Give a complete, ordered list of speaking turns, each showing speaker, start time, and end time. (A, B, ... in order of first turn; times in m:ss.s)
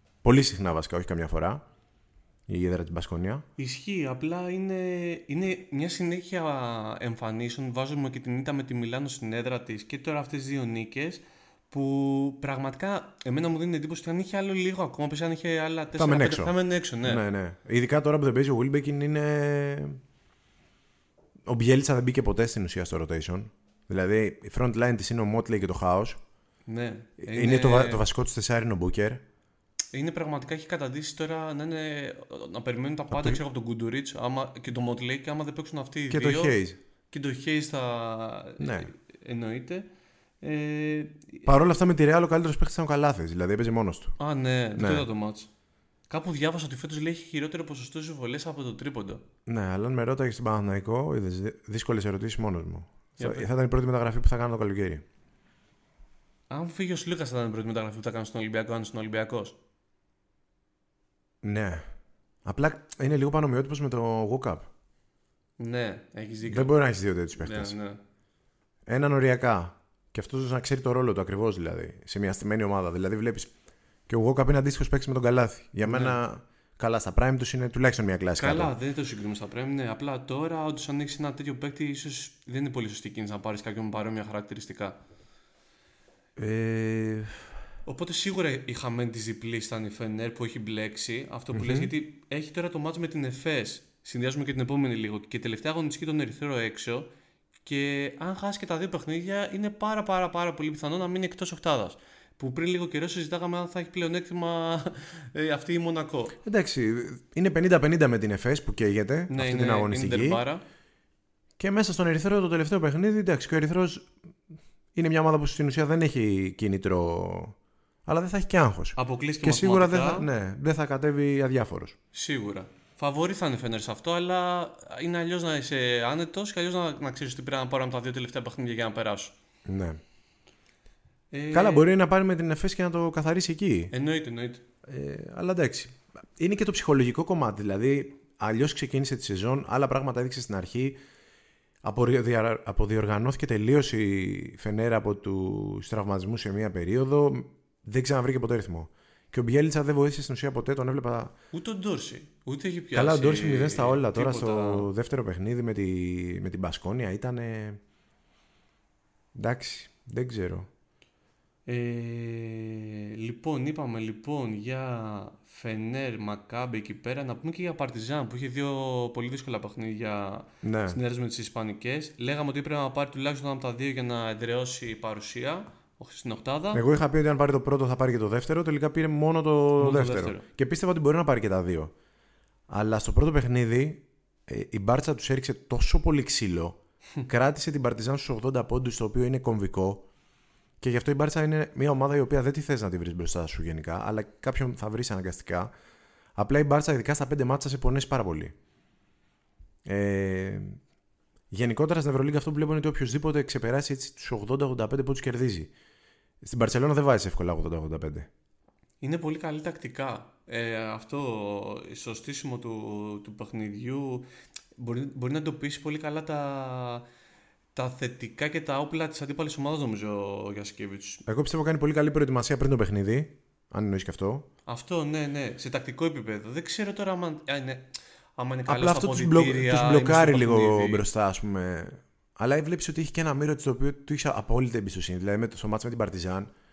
0:00.2-0:01.6 A
0:02.5-0:03.4 A
0:03.6-0:17.2 B
0:15.9-0:20.0 A
0:21.4-0:26.2 A
0:26.7-0:28.0 B
0:27.2-0:29.2 A
0:29.9-0:36.6 B
0:33.1-0:33.4 A
0:36.1-0:36.8 A
0:37.1-0:39.8 B
0:38.6-0:38.9 A
0:40.4-0:41.5 B
0:41.4-0:44.2 A
0:44.2-0:45.5 B
0:44.7-0:45.1 A
0:46.1-0:49.2 B
0:49.4-0:55.0 A
0:53.2-0:53.4 B
0:56.5-0:59.6 B
1:01.4-1:01.9 A
1:02.4-1:04.7 A
1:05.6-1:06.7 B
1:06.4-1:07.8 A
1:07.4-1:08.0 B
1:08.8-1:13.5 A
1:14.1-1:18.7 A
1:15.8-1:16.2 B
1:18.4-1:25.0 B
1:26.4-1:27.5 A
1:27.8-1:37.1 B
1:31.5-1:31.9 A
1:37.6-1:46.4 B
1:46.4-1:50.4 A
1:49.3-1:50.6 B
1:51.6-1:54.1 A
1:54.9-2:02.0 A
1:59.0-2:00.3 B
2:02.1-2:09.3 B
2:09.6-2:10.0 A
2:11.3-2:11.9 B
2:11.5-2:13.9 A
2:13.9-2:14.6 B
2:14.8-2:21.0 A
2:21.8-2:31.3 A
2:31.5-2:34.9 B
2:32.9-2:37.8 A
2:39.3-2:40.7 A
2:41.6-2:56.8 B
2:50.6-2:51.0 A
2:56.7-3:01.9 A
2:59.8-3:00.4 B
3:02.7-3:10.1 A
3:10.8-3:15.7 A
3:16.4-3:18.5 A
3:19.8-3:20.8 A
3:21.5-3:25.7 A
3:26.4-3:28.3 A
3:29.0-3:37.0 B
3:37.7-3:41.2 B
3:41.2-3:44.5 A
3:44.7-3:51.0 B
3:48.6-3:56.5 A